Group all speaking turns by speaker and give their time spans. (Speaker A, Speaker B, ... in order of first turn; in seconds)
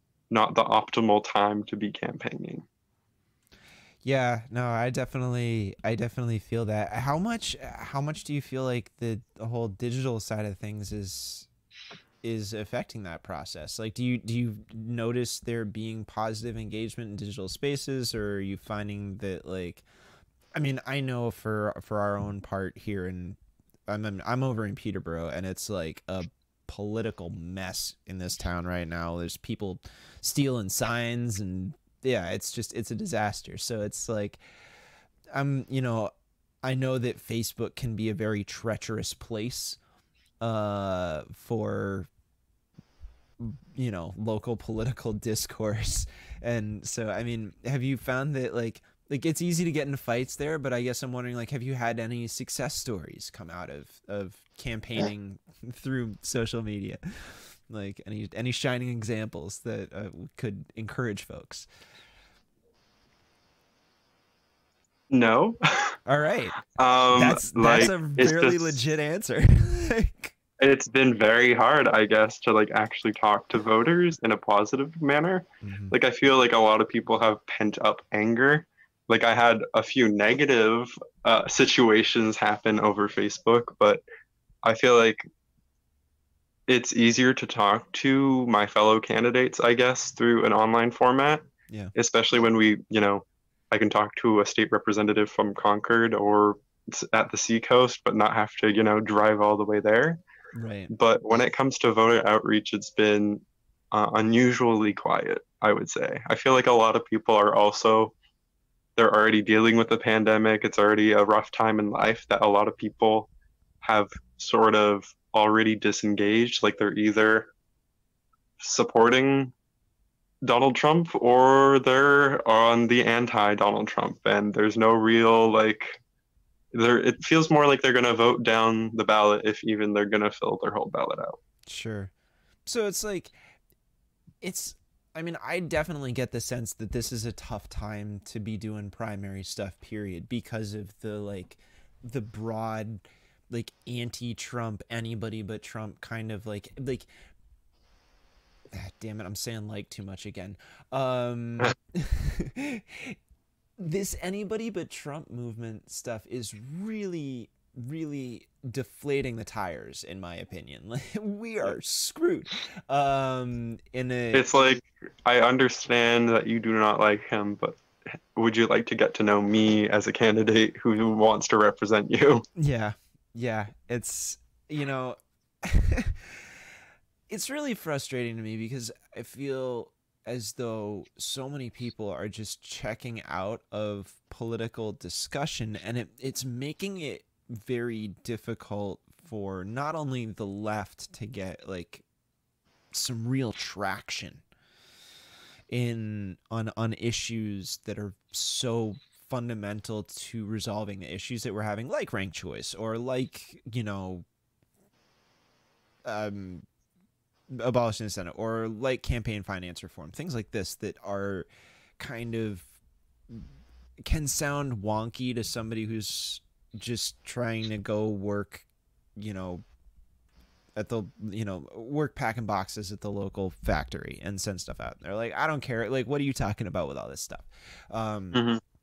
Speaker A: 0.3-2.6, 65.1-66.0, 66.6-68.8, 70.6-84.0, 84.6-85.2, 86.7-100.2, 100.9-108.1, 109.0-113.3, 113.8-117.5, 118.6-119.5, 120.4-126.0, 126.7-131.4, 164.3-167.8, 168.4-172.4, 228.3-228.6
Speaker B: 4.0-11.5, 12.2-19.9, 20.6-34.4, 35.3-39.8, 40.4-42.1, 43.4-61.7, 66.0-66.6, 67.1-70.3, 75.6-75.9, 91.7-91.9, 100.5-100.9, 131.7-132.1, 132.7-133.4, 134.4-147.1, 148.7-153.2, 153.8-164.6, 172.6-176.6, 177.3-192.0, 192.9-194.4, 195.7-204.3, 206.1-206.7, 207.5-211.5, 212.0-212.8, 214.0-218.6, 219.2-219.6, 220.7-228.4